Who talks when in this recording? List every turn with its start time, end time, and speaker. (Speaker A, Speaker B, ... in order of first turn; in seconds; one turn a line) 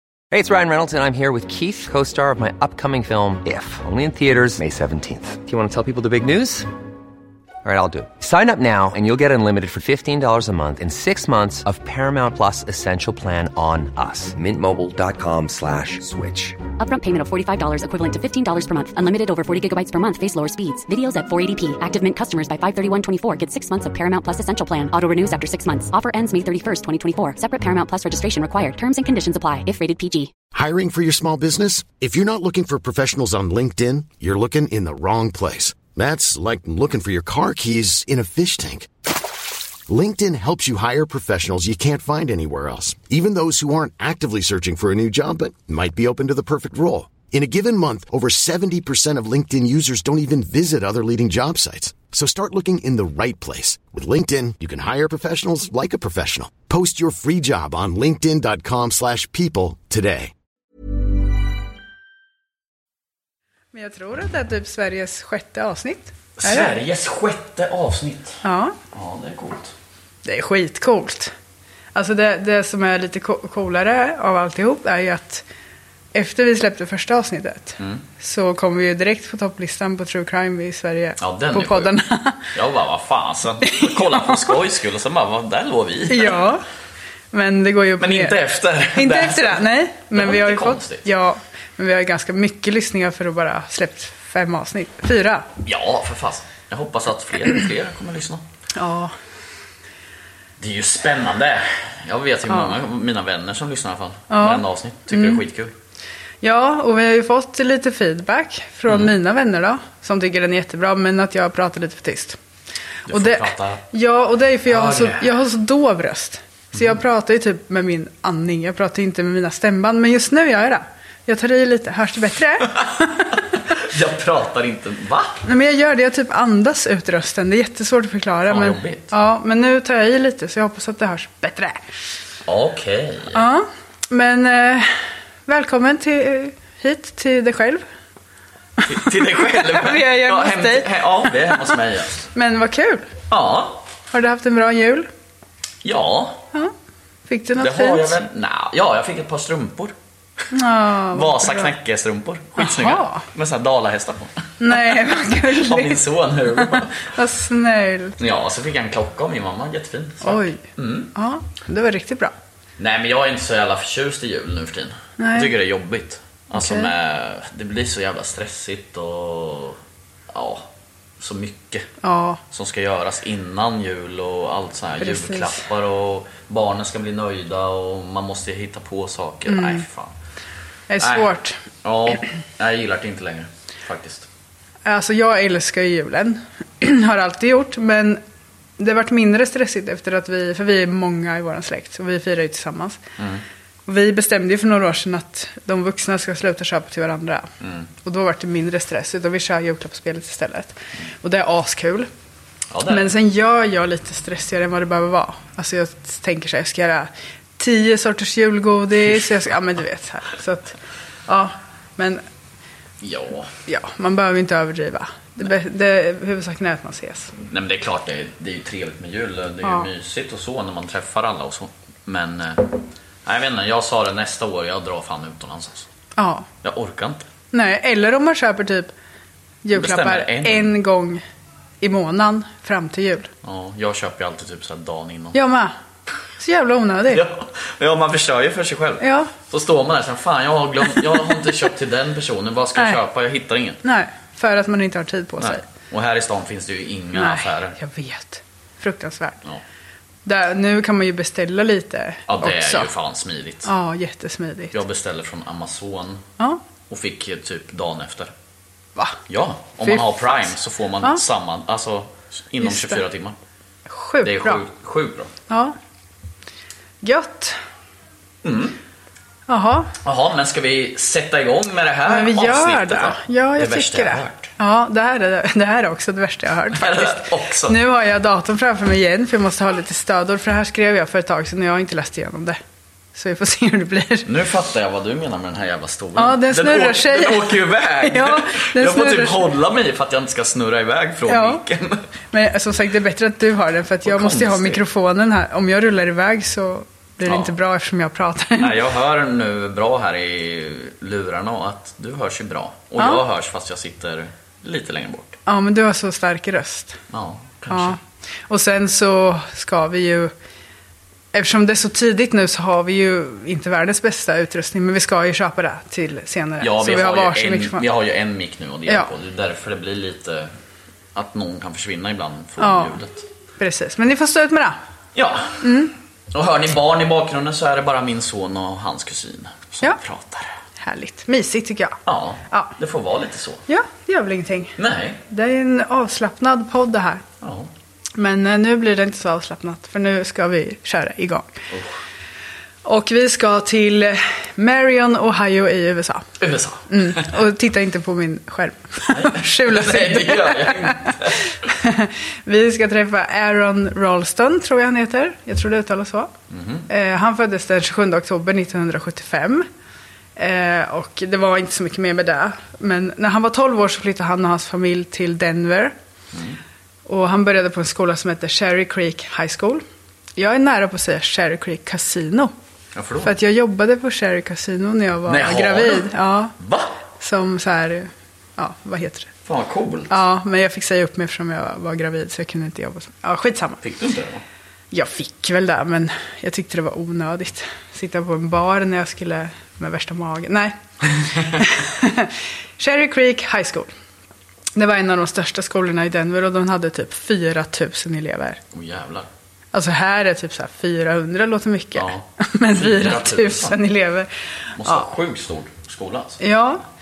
Speaker A: 0.3-6.7
Speaker A: 7.6-16.6
Speaker B: 16.8-30.3
Speaker C: 30.5-38.9
Speaker C: 39.9-60.3
Speaker D: 63.7-66.7
Speaker E: 66.4-69.7
Speaker D: 68.4-68.7
Speaker D: 70.2-71.3
Speaker D: 71.9-75.4
Speaker D: 76.1-82.5
Speaker E: 81.2-81.9
Speaker E: 82.5-86.5
Speaker D: 83.6-84.5
Speaker D: 86.1-86.6
Speaker D: 87.3-88.4
Speaker E: 88.0-91.0
Speaker D: 88.9-95.5
Speaker E: 95.6-98.4
Speaker D: 98.8-99.1
Speaker E: 100.6-105.7
Speaker D: 102.5-102.7
Speaker D: 104.3-105.4
Speaker D: 106.4-112.4
Speaker E: 113.1-113.8
Speaker D: 113.1-123.4
Speaker E: 114.7-115.2
Speaker E: 123.8-125.4
Speaker D: 125.4-131.8
Speaker E: 128.5-129.1
Speaker E: 132.5-133.4
Speaker D: 133.3-137.8
Speaker E: 138.8-142.2
Speaker D: 138.9-141.7
Speaker D: 142.3-143.1
Speaker E: 143.3-143.8
Speaker D: 144.1-145.1
Speaker E: 145.8-146.4
Speaker D: 147.3-148.1
Speaker E: 147.6-149.9
Speaker D: 150.5-151.7
Speaker E: 151.1-157.1
Speaker D: 152.6-153.2
Speaker D: 154.6-156.0
Speaker D: 156.5-158.2
Speaker E: 158.2-161.1
Speaker D: 160.2-160.6
Speaker D: 161.1-162.3
Speaker E: 162.8-169.8
Speaker D: 165.2-165.5
Speaker D: 166.5-166.9
Speaker E: 170.3-170.7
Speaker E: 171.2-171.9
Speaker D: 172.0-172.4
Speaker E: 172.5-180.1
Speaker D: 175.0-175.6
Speaker D: 179.5-179.8
Speaker D: 180.9-181.6
Speaker E: 181.0-181.3
Speaker E: 181.8-184.3
Speaker D: 184.8-188.2
Speaker D: 188.8-193.0
Speaker D: 193.9-197.5
Speaker E: 197.6-197.9
Speaker D: 198.0-202.1
Speaker E: 202.7-203.1
Speaker D: 202.9-210.7
Speaker D: 211.3-212.2
Speaker E: 213.0-213.5
Speaker D: 213.7-217.3
Speaker E: 217.4-225.9
Speaker D: 219.6-219.9
Speaker D: 226.2-226.5
Speaker E: 226.6-227.2
Speaker D: 227.5-228.9
Speaker D: 229.6-231.2
Speaker E: 229.7-230.7
Speaker D: 231.8-233.3
Speaker E: 233.4-235.4
Speaker D: 235.3-235.7
Speaker D: 236.4-237.2
Speaker E: 237.1-243.8
Speaker D: 239.0-239.3
Speaker D: 243.8-245.6
Speaker E: 245.4-247.8
Speaker D: 247.1-249.4
Speaker D: 250.2-252.9
Speaker E: 252.3-253.7
Speaker D: 253.6-254.8
Speaker E: 254.7-256.2
Speaker E: 256.9-258.3
Speaker E: 259.3-263.3
Speaker D: 259.8-260.1
Speaker D: 262.6-263.0
Speaker D: 263.9-264.6
Speaker E: 264.2-265.3
Speaker D: 265.5-265.7
Speaker D: 267.0-267.6
Speaker E: 268.4-268.8
Speaker D: 269.5-269.9
Speaker E: 270.0-274.5
Speaker D: 272.1-282.6
Speaker E: 276.7-277.8
Speaker D: 283.1-284.3
Speaker E: 284.2-292.0
Speaker D: 286.1-289.4
Speaker D: 291.3-291.6
Speaker D: 292.3-298.8
Speaker E: 294.0-294.8
Speaker E: 297.2-297.5
Speaker E: 298.6-305.4
Speaker D: 305.4-307.0
Speaker E: 307.1-308.0
Speaker D: 307.7-308.0
Speaker D: 308.5-310.3
Speaker D: 311.3-317.8
Speaker E: 316.6-320.5
Speaker E: 321.1-323.2
Speaker D: 322.6-322.9
Speaker D: 323.6-324.8
Speaker E: 325.1-325.6
Speaker D: 325.6-325.9
Speaker E: 326.3-330.5
Speaker D: 330.8-332.0
Speaker E: 332.1-333.6
Speaker D: 332.5-332.7
Speaker D: 333.7-334.7
Speaker E: 334.8-335.2
Speaker D: 335.3-337.2
Speaker E: 337.4-337.7
Speaker D: 338.2-341.5
Speaker D: 342.8-346.3
Speaker E: 346.4-347.3
Speaker D: 346.9-356.3
Speaker E: 349.1-351.5
Speaker E: 356.5-356.9
Speaker D: 356.9-359.7
Speaker D: 360.4-365.9
Speaker E: 366.3-366.6
Speaker D: 367.1-369.8
Speaker D: 370.4-372.5
Speaker E: 372.9-373.3
Speaker D: 373.2-376.5
Speaker E: 375.3-376.9
Speaker D: 377.2-379.3
Speaker E: 379.4-380.1
Speaker D: 380.1-383.8
Speaker E: 383.8-384.4
Speaker D: 384.9-393.9
Speaker D: 394.8-398.6
Speaker E: 398.7-399.3
Speaker D: 399.7-404.3
Speaker E: 402.0-403.8
Speaker E: 404.8-406.4
Speaker D: 404.8-405.1
Speaker D: 406.4-406.8